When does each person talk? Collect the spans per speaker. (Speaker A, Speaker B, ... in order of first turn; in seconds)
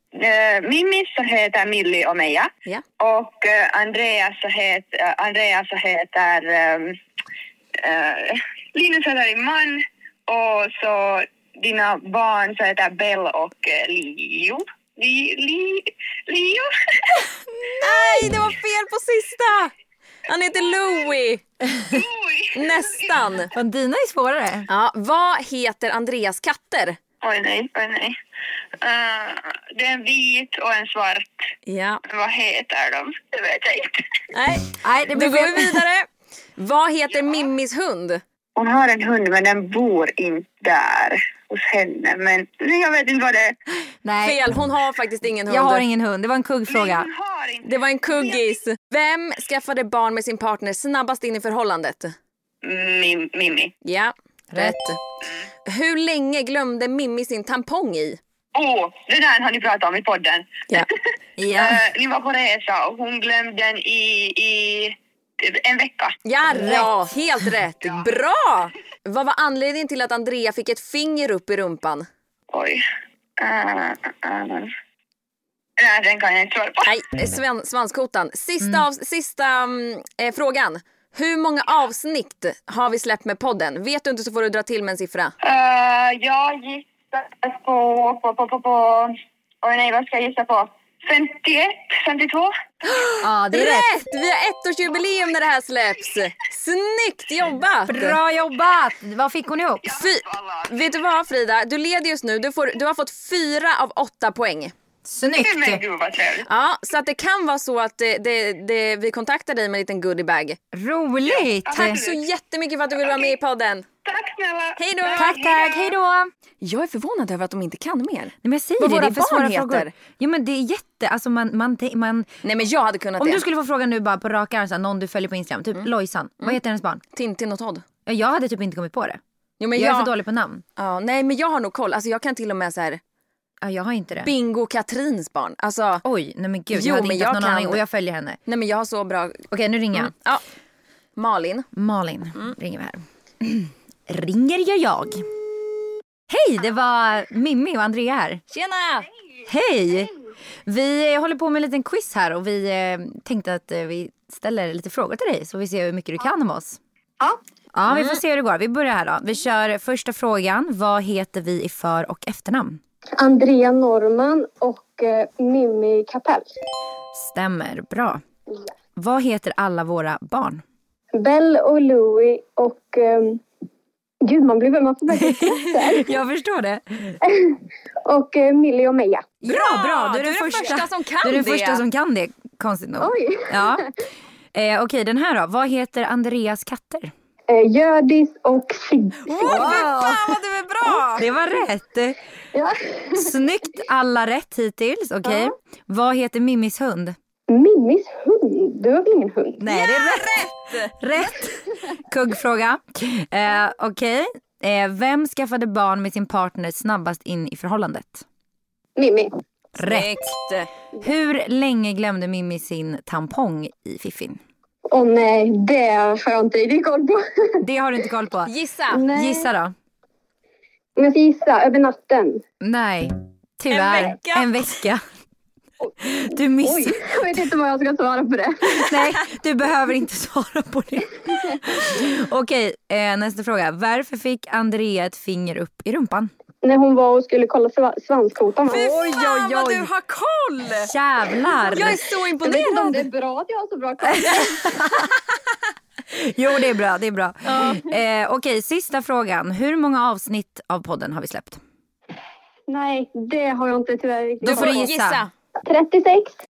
Speaker A: 0.1-7.0, 7.8-16.7, 21.9-23.1, 27.2-28.2, 28.8-31.4, 32.1-34.0, 38.5-43.5, 46.7-48.6, 52.6-53.7, 58.5-60.8, 61.5-66.1, 72.5-72.8, 73.4-74.7, 75.8-76.9, 85.4-92.5, 99.9-100.9, 105.3-106.5, 111.3-112.2, 113.0-113.3, 114.0-115.9
Speaker B: 17.8-19.7, 20.3-21.4, 22.5-23.5, 24.7-27.0, 31.6-32.0, 34.3-38.2, 44.2-45.9, 47.6-52.1, 53.8-55.0, 55.6-58.2, 66.2-72.1, 76.8-85.3, 92.8-98.2, 99.9-104.7, 106.4-110.6, 111.7-113.9, 114.8-115.5, 116.6-119.9, 122.4-123.4, 127.1-127.8, 129.6-130.1, 130.8-133.0, 134.2-136.0, 136.7-137.8, 138.4-140.4, 141.2-141.7, 148.5-149.1, 157.9-158.2, 179.5-181.8, 189.2-191.3, 199.7-200.9, 209.8-210.7, 218.5-219.0, 223.7-224.5, 238.7-240.9, 241.7-243.1, 254.4-255.3
Speaker C: 23.5-24.7, 34.8-35.9, 44.0-44.4, 45.5-47.1, 54.5-54.8, 61.4-61.9, 66.5-66.9, 78.6-78.8, 93.2-93.9, 97.9-100.0, 105.0-105.8, 110.7-112.0, 115.1-116.3, 118.4-122.3, 123.2-127.0, 128.1-129.2, 129.7-130.6, 133.6-134.3, 136.0-138.4, 139.5-140.1, 141.7-145.2, 146.3-148.4, 149.4-150.1, 150.7-156.8, 157.7-162.8, 167.1-168.2, 168.9-170.6, 175.1-177.2, 179.4-183.9, 184.5-187.1, 189.4-190.3, 191.2-192.2, 193.1-197.2, 199.6-208.2, 209.8-210.1, 211.0-214.4, 217.6-219.7, 222.6-225.0, 226.0-227.5, 228.8-236.3, 238.7-239.9, 240.8-242.0, 244.0-245.1, 246.1-251.6, 254.4-255.2
Speaker D: 163.2-166.5, 171.1-173.4, 174.2-176.1, 177.2-179.3, 183.0-183.9, 187.5-189.7, 192.5-193.3, 195.2-195.5, 197.5-199.7, 209.0-209.3, 214.9-217.6, 218.9-219.5, 221.0-222.4, 226.6-228.9, 236.6-238.9, 242.4-244.8, 252.7-254.8, 255.6-256.3